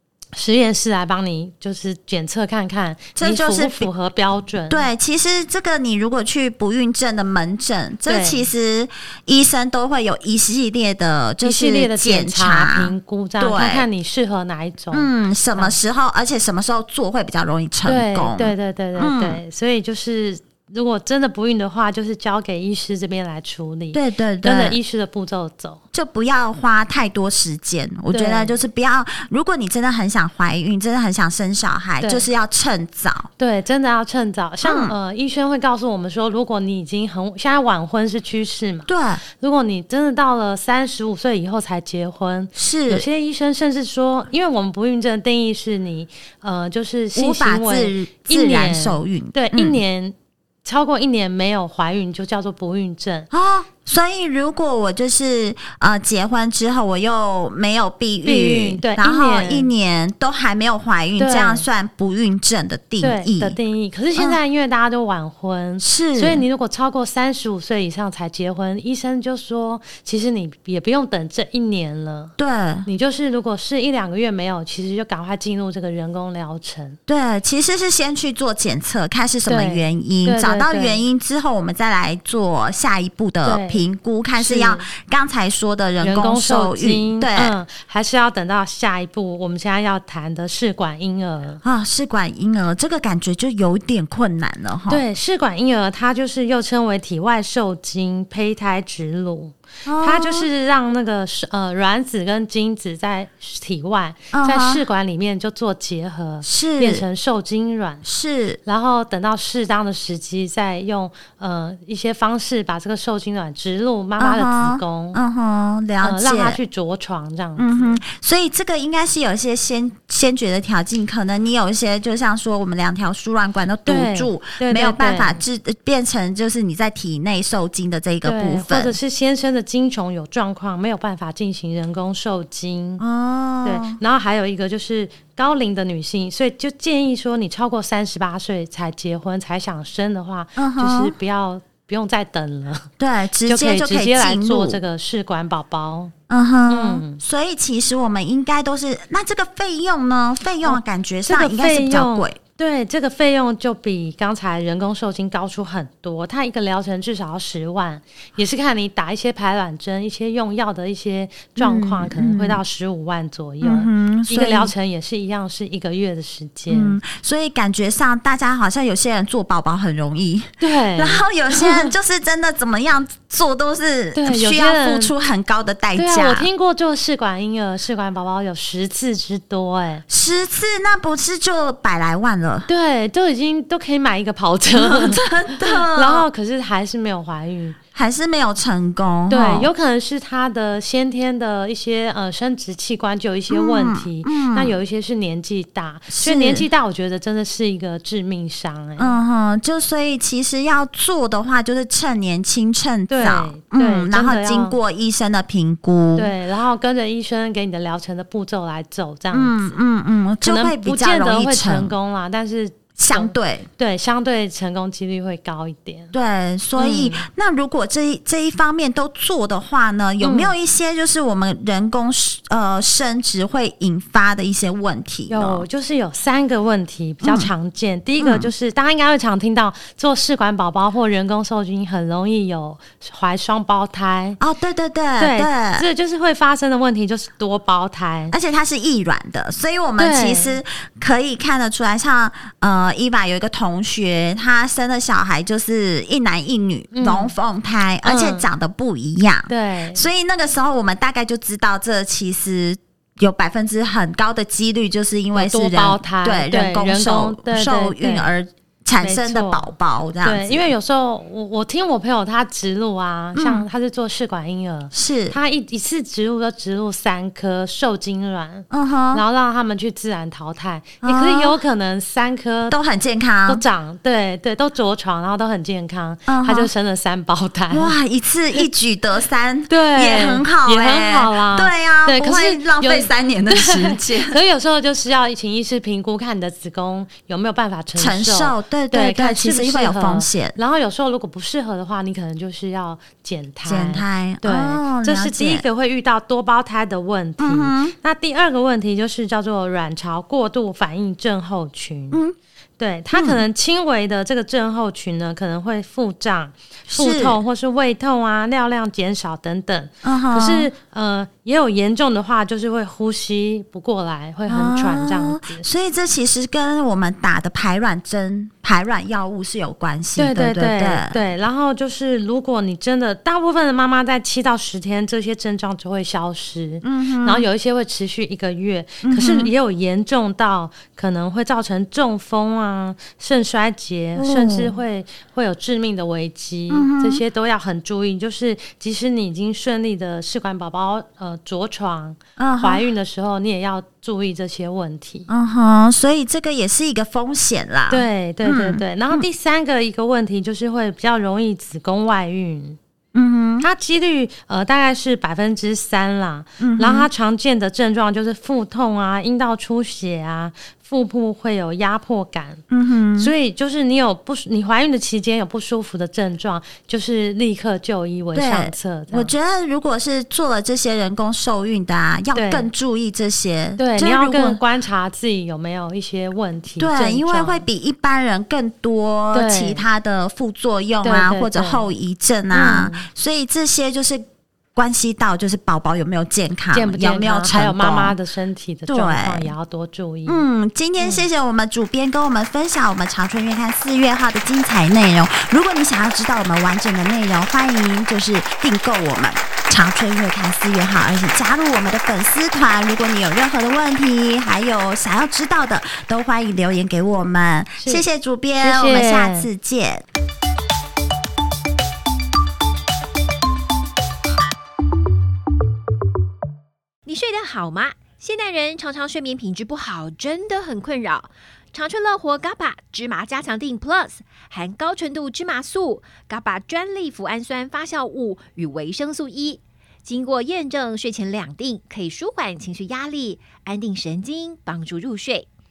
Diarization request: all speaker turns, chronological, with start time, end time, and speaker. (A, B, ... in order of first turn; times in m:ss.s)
0:00.3-0:04.8 A
0:03.2-0:03.9 B
0:04.7-0:13.9 B
0:08.1-0:08.4 A
0:11.4-0:15.8 A
0:14.9-0:19.4 B
0:17.8-0:25.8 A
0:23.9-0:24.8 B
0:25.9-0:33.3 B
0:28.1-0:28.5 A
0:32.0-0:32.2 A
0:33.4-0:53.3 A
0:34.6-0:34.9 B
0:38.9-0:39.2 B
0:42.5-0:43.0 B
0:47.1-0:49.8 B
0:53.3-1:03.6 B
0:58.2-0:59.7 A
1:01.2-1:01.6 A
1:03.0-1:12.3 A
1:05.8-1:06.4 B
1:12.4-1:12.9 B
1:12.8-1:17.0 A
1:17.1-1:27.6 B
1:19.5-1:21.0 A
1:23.4-1:23.8 A
1:24.4-1:24.9 A
1:26.0-1:31.6 A
1:31.6-1:35.0 B
1:34.9-1:48.0 A
1:39.8-1:40.5 B
1:44.3-1:44.8 B
1:46.4-1:47.0 B
1:48.0-1:48.6 B
1:48.6-1:55.2 A
1:54.2-1:56.6 B
1:56.0-1:58.0 A
1:57.6-2:09.0 B
2:03.8-2:05.4 A
2:08.2-2:13.0 A
2:13.0-2:14.0 B
2:13.6-2:22.9 A
2:20.6-2:21.1 B
2:23.0-2:24.8 B
2:23.4-2:26.1 A
2:26.3-2:32.4 B
2:26.7-2:27.2 A
2:30.6-2:47.0 A
2:41.6-2:42.6 B
2:43.6-2:44.7 B
2:46.7-2:56.5 B
2:50.6-2:51.9 A
2:54.1-2:55.1 A
2:56.0-3:00.0 A
3:00.1-3:02.7 B
3:02.7-3:07.8 A
3:04.7-3:06.3 B
3:07.9-3:09.7 B
3:09.3-3:19.2 A
3:13.5-3:14.7 B
3:16.1-3:16.6 B
3:19.0-3:26.3 B
3:23.1-3:24.8 A
3:26.2-3:29.6 A
3:29.3-3:31.9 B
3:30.4-3:36.1 A
3:33.0-3:33.7 B
3:36.1-3:45.6 B
3:36.8-3:37.3 A
3:40.2-3:40.5 A
3:45.3-3:54.4 A
3:47.2-3:47.5 B
3:48.2-3:48.5 B
3:54.4-3:55.9 B
3:55.2-3:58.3 A
3:58.3-4:20.7 B
4:00.0-4:00.6 A
4:06.9-4:07.3 A
4:08.0-4:08.5 A
4:09.5-4:10.0 A
4:15.3-4:18.3 A
4:19.0-4:32.7 A
4:23.4-4:23.6 B
4:24.9-4:25.4 B
4:28.7-4:29.2 B
4:31.0-4:31.6 B
4:32.7-4:33.6 B
4:33.5-4:37.9 A
4:36.3-4:36.7 B
4:37.7-4:44.4 B
4:39.7-5:02.2 A
4:48.0-4:50.6 B
4:53.6-4:55.6 B
4:57.4-4:57.9 B
5:02.8-5:15.7 A
5:03.1-5:03.4 B
5:06.9-5:07.4 B
5:10.0-5:10.7 B
5:14.5-5:21.2 B
5:20.2-5:45.3 A
5:26.8-5:27.5 B
5:29.0-5:29.5 B
5:34.2-5:34.7 B
5:36.7-5:37.2 B
5:42.4-5:42.8 B
5:45.3-5:49.2 B
5:47.9-5:52.8 A
5:53.1-5:53.7 B
5:53.6-6:02.6 A
5:56.6-5:57.1 B
6:02.7-6:03.3 B
6:03.2-6:09.3 A
6:08.3-6:14.6 B
6:12.3-6:12.7 A
6:13.8-6:17.6 A
6:16.8-6:28.2 B
6:19.3-6:19.8 A
6:21.0-6:21.8 A
6:22.5-6:23.1 A
6:26.7-6:30.4 A
6:28.9-6:29.5 B
6:30.3-6:50.0 B
6:31.0-6:31.2 A
6:47.8-6:48.0 A
6:48.6-6:49.5 A
6:57.0-7:15.5 C